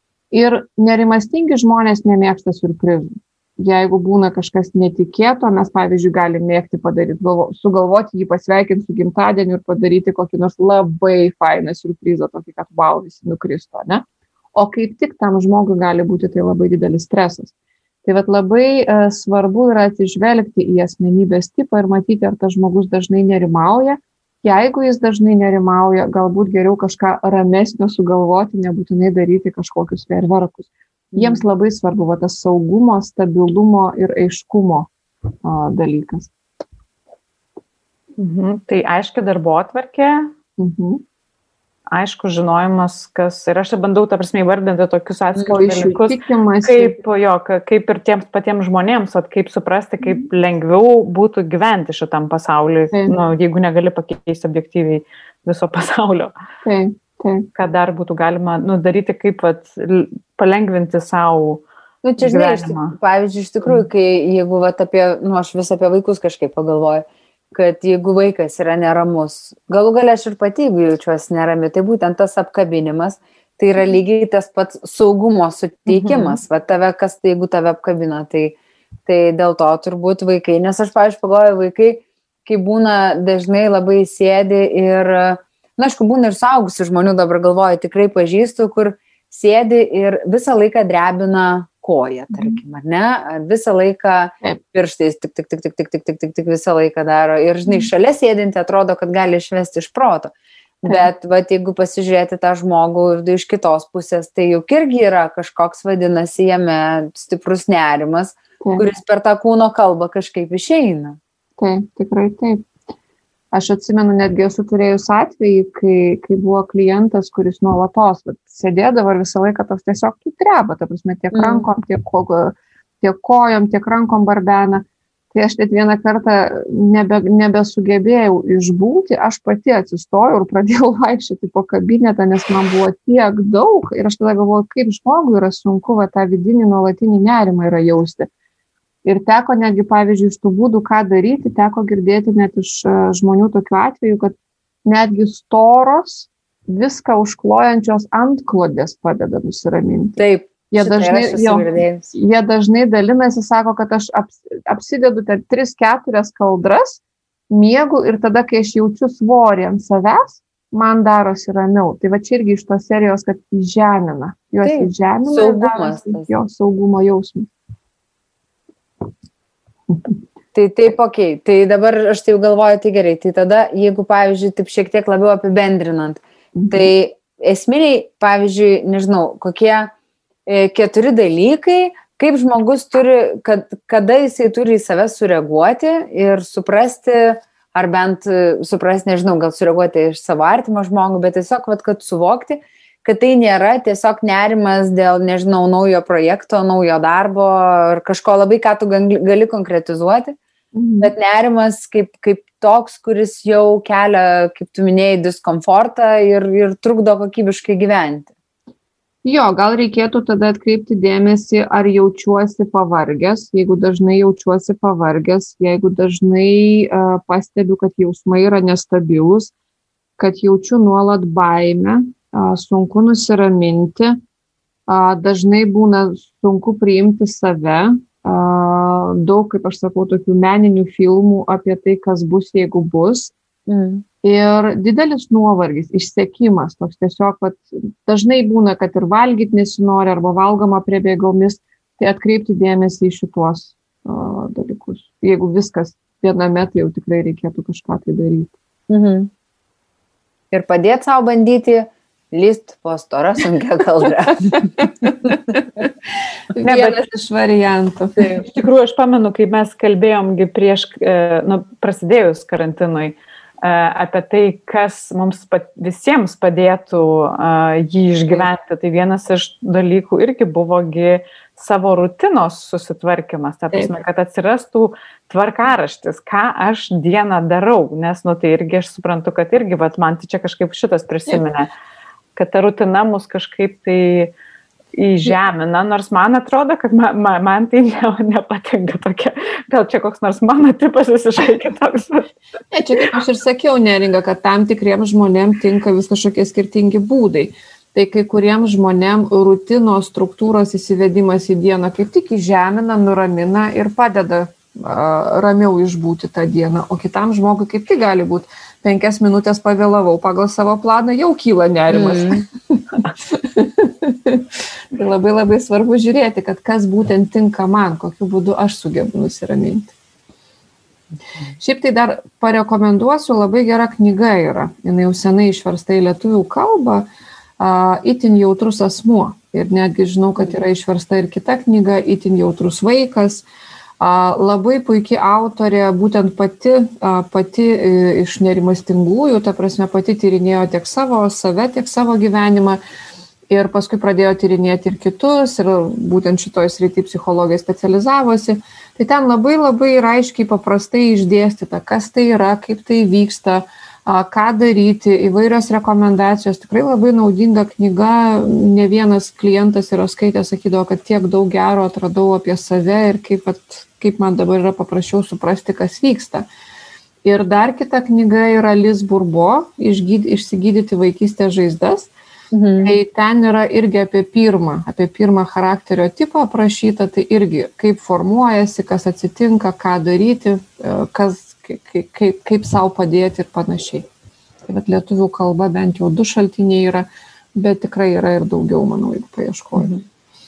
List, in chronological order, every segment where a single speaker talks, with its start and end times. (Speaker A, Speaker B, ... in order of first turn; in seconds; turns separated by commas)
Speaker A: 0.3-14.0, Speaker A: 14.5-17.5, Speaker A: 18.0-34.9, Speaker B: 31.1-31.4, Speaker A: 35.4-36.3, Speaker C: 38.2-40.3, Speaker A: 40.6-41.0, Speaker C: 41.9-56.3, Speaker A: 45.4-47.0, Speaker A: 56.6-57.5, Speaker C: 57.5-61.6, Speaker B: 62.0-111.2, Speaker C: 62.2-63.0, Speaker A: 75.9-76.3, Speaker A: 92.3-92.6, Speaker A: 108.6-108.9, Speaker A: 111.6-112.7, Speaker A: 113.5-138.3, Speaker B: 121.3-121.7, Speaker A: 139.0-150.2, Speaker B: 150.2-152.1, Speaker A: 150.7-167.5, Speaker B: 164.6-166.3, Speaker B: 170.5-179.9, Speaker A: 176.5-176.9, Speaker B: 180.5-200.4, Speaker A: 200.7-201.1, Speaker B: 201.0-208.3, Speaker A: 209.2-219.5, Speaker A: 220.2-224.2, Speaker A: 224.9-233.3, Speaker B: 233.7-234.0, Speaker A: 234.2-248.5, Speaker B: 248.9-249.3, Speaker B: 250.5-255.4, Speaker A: 256.5-258.4, Speaker C: 256.6-257.0, Speaker C: 258.4-281.7, Speaker C: 282.4-284.3, Speaker C: 284.9-292.3, Speaker A: 292.7-319.9, Speaker B: 311.9-312.4, Speaker A: 321.6-327.1, Speaker A: 327.6-333.4, Speaker A: 334.0-342.8, Speaker A: 343.5-366.4, Speaker A: 367.2-372.1, Speaker B: 372.5-372.9, Speaker A: 372.8-384.1, Speaker A: 384.6-389.9